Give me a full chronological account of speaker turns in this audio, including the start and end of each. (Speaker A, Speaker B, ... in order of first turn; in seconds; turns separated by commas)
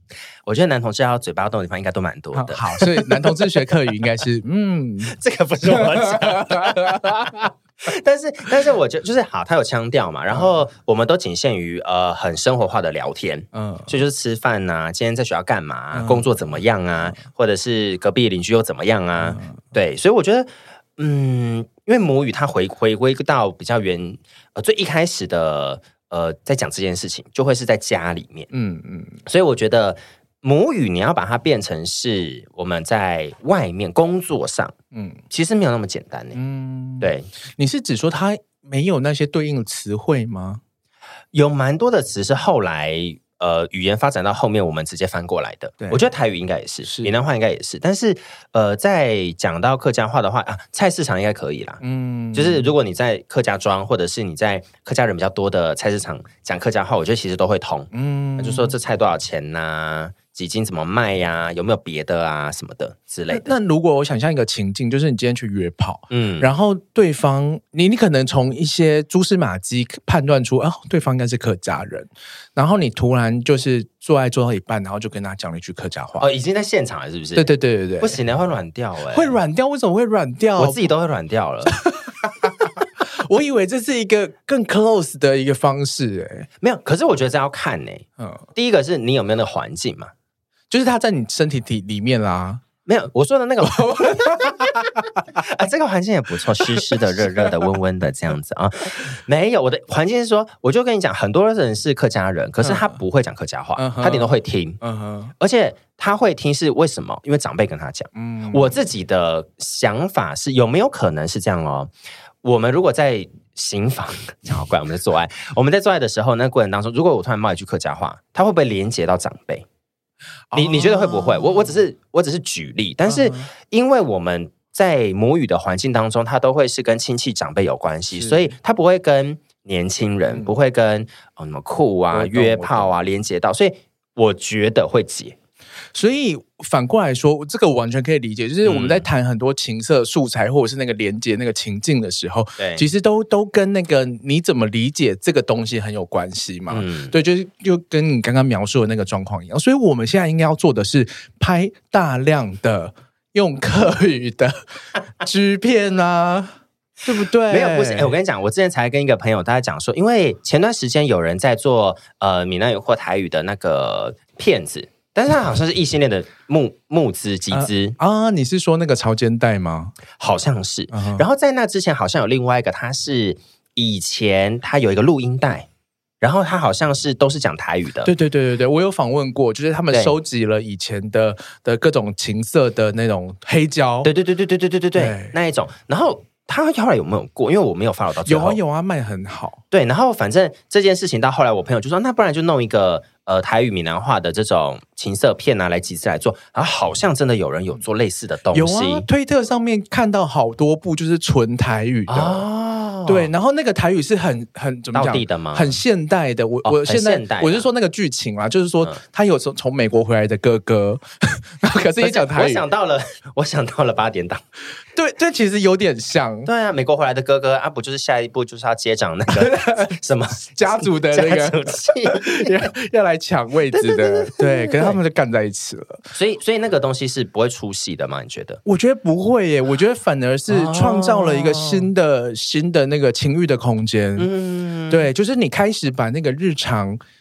Speaker A: 0.5-3.7, Speaker B: 2.3-7.3, Speaker A: 5.0-28.5, Speaker B: 13.5-14.0, Speaker B: 15.9-16.4, Speaker B: 19.2-19.6, Speaker B: 28.5-29.2, Speaker A: 29.2-34.7, Speaker B: 34.9-35.2, Speaker A: 35.3-36.4, Speaker B: 36.3-40.6, Speaker A: 37.0-37.3, Speaker A: 41.3-51.8, Speaker B: 45.8-46.0, Speaker B: 46.8-47.1, Speaker B: 51.8-52.7, Speaker A: 52.3-63.5, Speaker B: 57.9-58.7, Speaker B: 63.3-76.3, Speaker A: 66.1-66.5, Speaker A: 76.2-77.5, Speaker B: 77.3-78.2, Speaker A: 78.0-79.3, Speaker B: 79.1-80.9, Speaker A: 80.6-81.7, Speaker B: 81.7-86.5, Speaker A: 86.6-90.1, Speaker B: 88.2-88.5, Speaker B: 90.7-92.6, Speaker A: 92.8-104.8, Speaker B: 93.6-95.1, Speaker B: 96.6-97.7, Speaker B: 102.6-103.0, Speaker B: 103.8-105.3, Speaker A: 105.4-111.9, Speaker B: 108.1-108.8, Speaker A: 112.4-119.7, Speaker B: 120.5-121.8, Speaker A: 120.5-135.3, Speaker B: 123.0-123.5, Speaker B: 128.1-128.5, Speaker B: 130.3-130.5, Speaker B: 132.1-132.9, Speaker B: 135.9-154.6, Speaker A: 138.6-139.1, Speaker A: 142.6-142.8, Speaker A: 146.7-147.1, Speaker B: 155.2-156.5, Speaker B: 157.0-158.2, Speaker A: 157.5-167.9, Speaker B: 167.5-169.9, Speaker A: 170.2-175.7, Speaker B: 170.9-171.2, Speaker A: 176.2-178.1, Speaker B: 178.0-184.1, Speaker A: 184.0-188.6, Speaker B: 184.9-185.3, Speaker B: 188.2-189.6, Speaker A: 189.7-199.1, Speaker B: 198.5-202.4, Speaker A: 202.1-203.3, Speaker B: 203.1-212.6, Speaker A: 204.9-205.8, Speaker A: 206.6-207.7, Speaker A: 212.0-214.4, Speaker B: 214.9-216.5, Speaker A: 216.4-222.7, Speaker B: 219.3-226.1, Speaker A: 223.7-224.9, Speaker A: 226.1-228.6, Speaker B: 228.6-234.3, Speaker A: 230.5-231.9, Speaker A: 234.2-235.1, Speaker B: 234.9-237.0